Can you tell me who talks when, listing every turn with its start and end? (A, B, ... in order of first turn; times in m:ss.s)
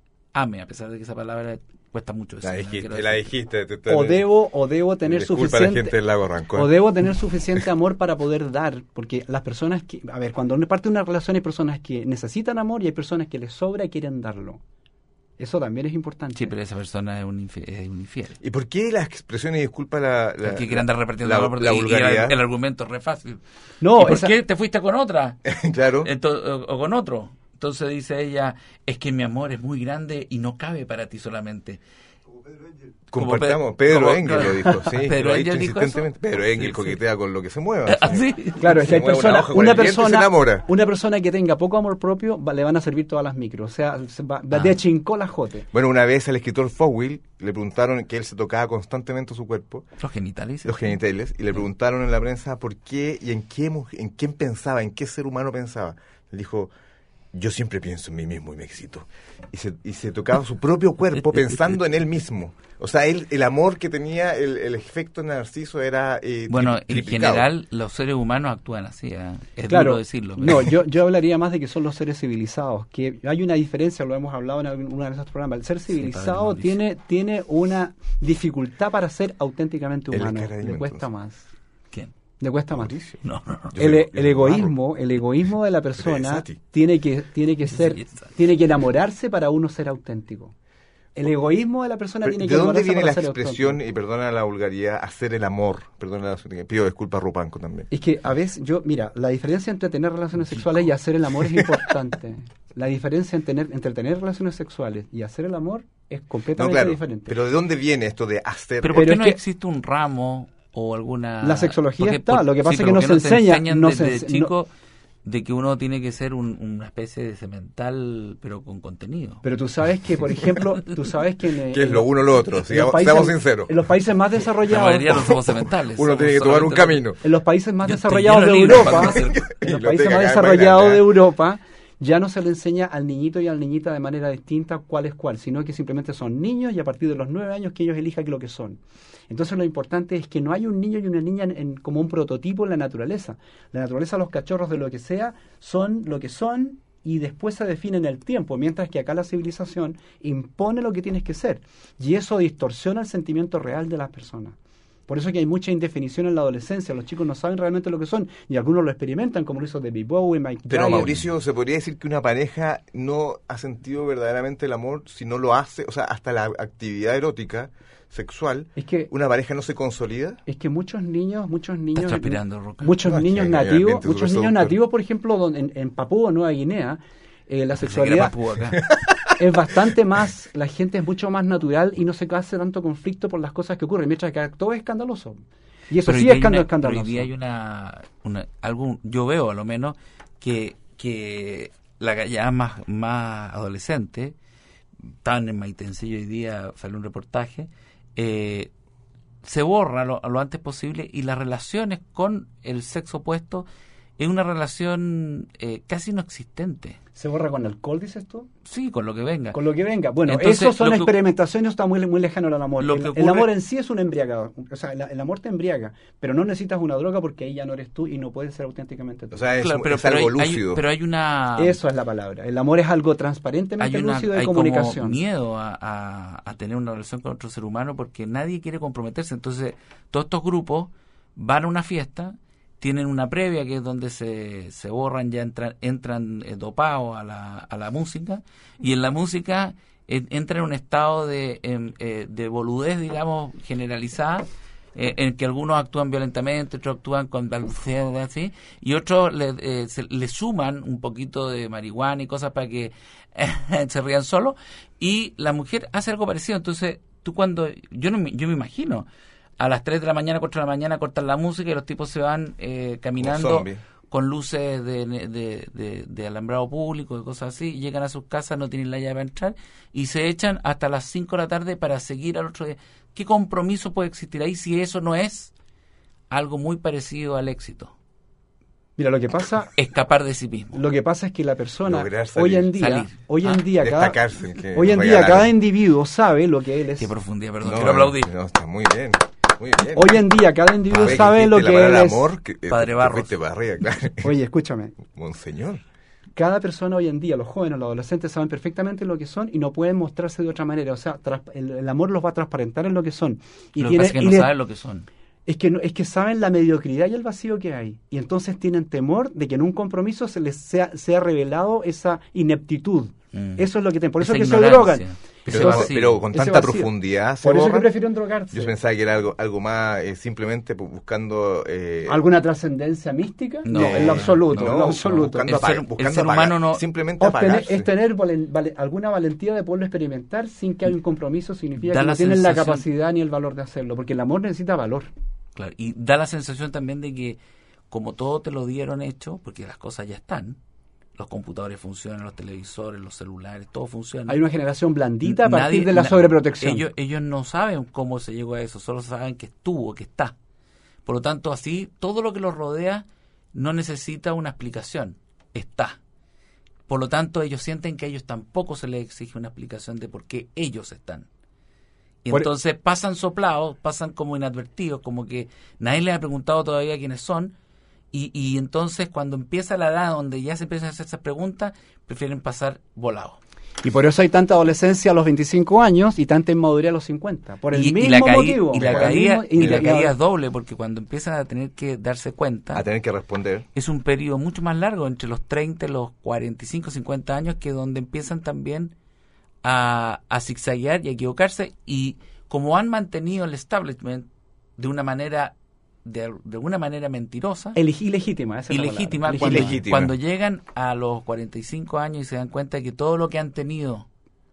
0:00.3-0:03.3 A
0:02.4-0:04.3 B
0:03.9-0:06.0 C
0:05.1-0:06.7 B
0:06.5-0:14.6 C
0:15.4-0:16.5 C
0:16.4-0:18.4 A
0:18.4-0:22.4 B
0:20.4-0:23.4 A
0:23.8-0:24.3 C
0:24.0-0:25.4 A
0:25.5-0:26.1 B
0:26.0-0:31.8 A
0:33.1-0:40.7 B
0:33.2-0:37.0 A
0:37.9-0:38.9 A
0:38.6-0:45.7 C
0:44.5-0:44.8 A
0:45.7-0:49.8 B
0:50.0-0:51.0 A
0:50.6-0:56.7 B
0:57.3-1:07.5 B
1:01.2-1:01.7 A
1:06.5-1:10.7 A
1:09.7-1:21.5 C
1:15.9-1:16.8 A
1:20.1-1:21.0 B
1:22.4-1:22.9 C
1:22.7-1:23.2 B
1:23.2-1:23.8 A
1:23.7-1:24.8 B
1:23.8-1:30.5 C
1:26.0-1:26.6 B
1:27.7-1:28.3 A
1:31.2-1:33.8 C
1:32.2-1:37.9 B
1:37.9-1:47.4 C
1:46.6-1:49.1 B
1:48.8-1:54.7 A
1:48.9-1:49.4 C
1:51.4-1:54.5 C
1:55.2-1:59.4 A
1:59.4-2:05.3 C
2:01.7-2:03.8 B
2:04.7-2:07.0 A
2:05.2-2:07.2 B
2:07.2-2:34.6 C
2:07.8-2:09.5 A
2:08.8-2:11.2 B
2:35.1-2:41.2 C
2:40.7-2:50.4 B
2:48.8-2:49.1 C
2:50.5-2:58.4 C
2:52.0-2:53.0 A
2:53.0-2:54.8 B
2:57.8-2:58.8 A
2:58.9-2:59.3 B
2:59.4-3:07.3 C
3:06.0-3:14.4 A
3:15.2-3:18.7 A
3:19.4-3:23.7 A
3:24.2-3:27.0 A
3:27.2-3:28.5 C
3:28.7-3:29.6 A
3:29.5-3:39.4 C
3:30.3-3:31.1 A
3:32.8-3:33.5 A
3:39.3-3:40.8 B
3:39.6-3:41.8 A
3:41.6-3:45.2 C
3:43.8-4:19.1 A
4:19.6-4:35.5 A
4:23.2-4:23.8 B
4:36.3-4:37.9 A
4:39.0-4:39.8 C
4:39.8-4:40.8 A
4:40.7-4:44.2 C
4:41.8-4:42.7 B
4:42.8-4:43.6 A
4:43.8-4:45.5 B
4:44.7-4:47.1 C
4:47.0-4:48.3 A
4:47.6-4:50.2 B
4:49.9-4:52.3 C
4:50.9-4:51.2 A
4:50.9-4:54.3 B
4:52.7-4:53.3 A
4:54.2-4:55.0 C
4:55.1-4:55.8 B
4:56.4-5:04.5 C
5:03.8-5:05.1 A
5:05.5-5:18.7 C
5:13.3-5:13.6 A
5:14.2-5:16.2 A
5:15.5-5:17.9 B
5:18.5-5:22.2 B
5:22.1-5:25.6 C
5:23.6-5:26.8 A
5:23.7-5:27.9 B
5:27.2-5:35.1 C
5:31.8-5:32.8 A
5:35.6-5:37.4 A
5:37.9-5:40.6 A
5:41.2-5:44.4 A
5:44.3-5:46.9 C
5:45.2-5:50.4 A
5:51.1-5:56.0 A
5:56.9-6:01.3 A
6:02.2-6:07.6 A
6:08.1-6:13.4 A
6:13.8-6:20.2 C
6:17.7-6:22.9 A
6:18.8-6:19.8 B
6:22.7-6:23.7 B
6:23.8-6:28.9 A
6:29.6-6:37.8 A
6:37.8-6:39.8 C
6:38.7-6:44.1 A
6:39.4-6:40.1 B